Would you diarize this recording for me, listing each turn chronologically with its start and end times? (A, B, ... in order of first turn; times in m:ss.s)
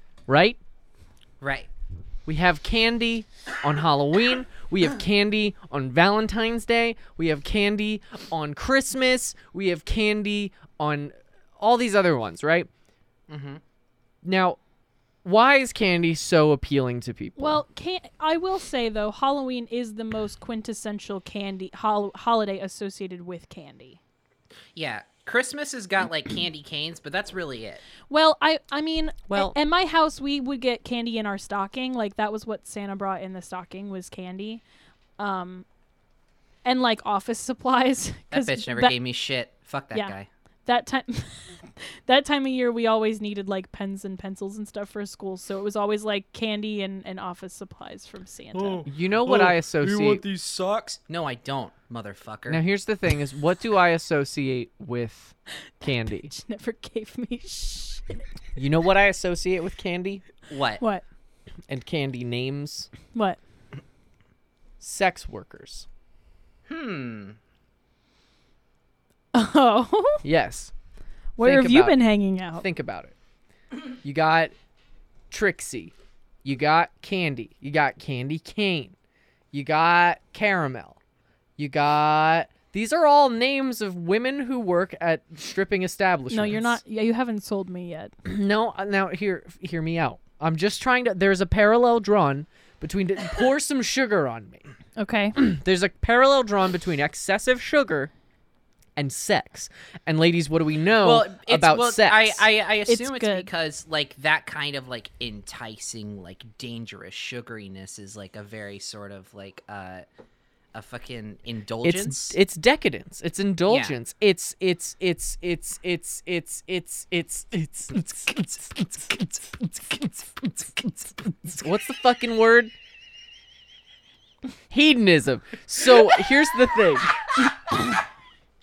0:00.3-0:00.6 A
0:01.4-0:01.7 B
0:02.2-0:12.7 A
0:13.3-0:13.6 B
0:14.2-0:14.6 A
0:15.2-0:17.6 A
0:17.4-0:24.0 C
0:24.7-0:27.8 B
0:28.1-0:34.6 C
0:29.3-0:29.6 A
0:35.2-0:35.6 C
0:36.6-0:38.9 C
0:38.3-0:40.3 B
0:39.9-0:48.8 C
0:48.5-0:52.6 B
0:48.8-0:50.2 A
0:52.5-0:56.3 A
0:55.8-0:58.2 C
0:58.6-1:00.2 A
1:00.5-1:00.8 B
1:01.7-1:02.9 A
1:03.1-1:03.4 C
1:04.8-1:05.8 A
1:06.7-1:07.4 B
1:09.3-1:10.2 C
1:10.2-1:10.7 A
1:11.4-1:12.6 C
1:11.4-1:13.1 A
1:14.0-1:14.5 A
1:15.3-1:18.9 A
1:19.5-1:21.0 A
1:21.6-1:26.8 A
1:26.3-1:28.1 C
1:28.2-1:34.6 A
1:35.0-1:35.4 C
1:35.3-1:38.1 A
1:39.0-1:42.4 A
1:41.0-1:50.0 B
1:42.9-1:43.5 C
1:50.7-1:52.4 B
1:51.8-1:59.2 A
1:53.7-1:54.0 B
1:57.9-2:01.6 B
2:01.5-2:02.7 A
2:04.7-2:07.1 A